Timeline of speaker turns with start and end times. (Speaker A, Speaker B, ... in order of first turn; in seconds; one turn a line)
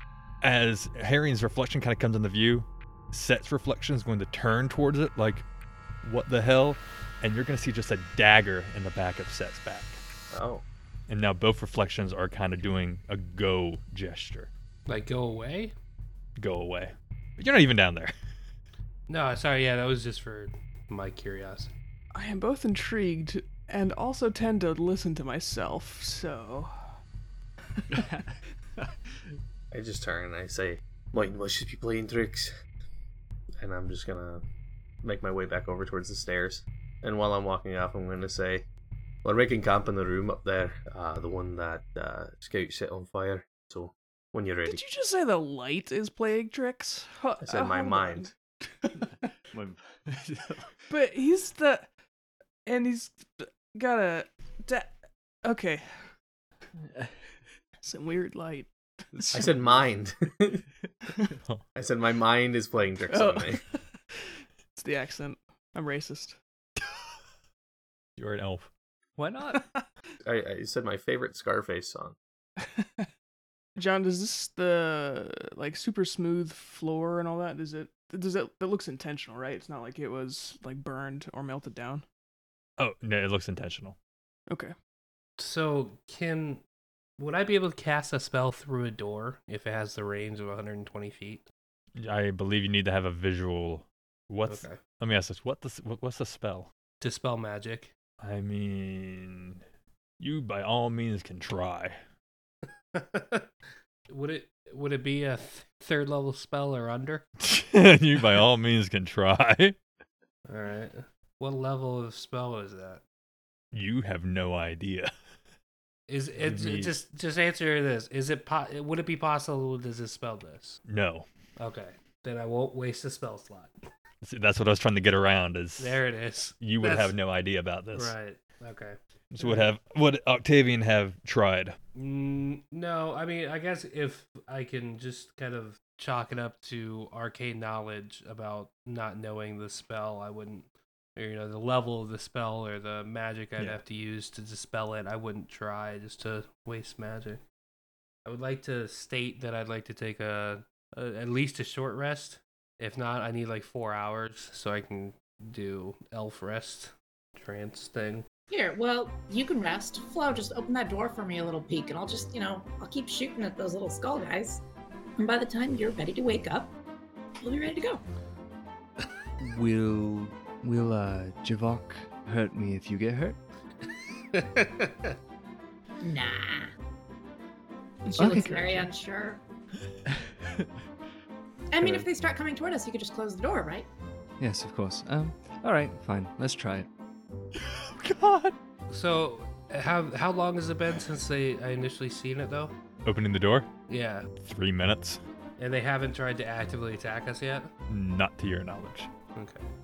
Speaker A: 0.4-5.5
Speaker A: 6.0-10.0
Speaker B: 10.3-10.6
Speaker A: 11.1-14.5
Speaker C: 14.9-15.8
Speaker A: 16.4-18.1
Speaker C: 19.1-21.7
Speaker D: 22.1-26.9
Speaker B: 29.7-32.5
Speaker B: 33.6-34.4
Speaker B: 35.0-38.6
Speaker B: 39.2-44.9
Speaker D: 44.6-48.3
Speaker B: 47.4-48.3
Speaker E: 49.5-50.7
Speaker D: 50.9-51.9
Speaker D: 52.6-56.1
Speaker D: 57.8-59.7
Speaker B: 59.3-60.6
Speaker B: 61.8-63.6
Speaker D: 63.1-63.6
Speaker D: 64.8-66.4
Speaker A: 68.2-68.7
Speaker E: 69.2-69.7
Speaker D: 69.6-69.8
Speaker B: 70.2-72.2
Speaker D: 72.6-73.1
Speaker D: 73.8-82.0
Speaker A: 82.8-84.0
Speaker D: 84.5-84.7
Speaker C: 85.4-86.6
Speaker C: 87.2-91.4
Speaker A: 92.0-96.7
Speaker C: 94.5-94.8
Speaker C: 97.0-97.9
Speaker A: 98.2-99.6
Speaker A: 100.2-102.0
Speaker C: 102.9-103.5
Speaker C: 104.1-107.2
Speaker A: 107.4-109.8
Speaker C: 110.5-113.0
Speaker A: 113.7-115.1
Speaker C: 116.1-120.8
Speaker A: 116.4-117.0
Speaker A: 120.8-121.3
Speaker C: 121.6-123.7
Speaker A: 124.2-126.0
Speaker C: 125.8-127.2
Speaker A: 126.6-128.2
Speaker C: 127.9-129.7
Speaker A: 129.3-131.8
Speaker C: 131.9-147.4
Speaker C: 148.2-158.2
Speaker F: 158.5-164.6
Speaker F: 165.2-166.8
Speaker F: 167.4-168.0
Speaker E: 169.4-173.4
Speaker C: 174.3-175.2
Speaker F: 176.0-176.7
Speaker D: 178.1-178.9
Speaker F: 178.2-179.4
Speaker E: 178.2-178.5
Speaker F: 181.7-183.9
Speaker E: 184.4-186.9
Speaker A: 187.6-188.6
Speaker C: 188.9-192.7
Speaker A: 193.0-193.7
Speaker C: 193.9-194.3
Speaker A: 194.4-195.2
Speaker C: 195.6-197.7
Speaker A: 197.9-199.1
Speaker C: 199.3-199.7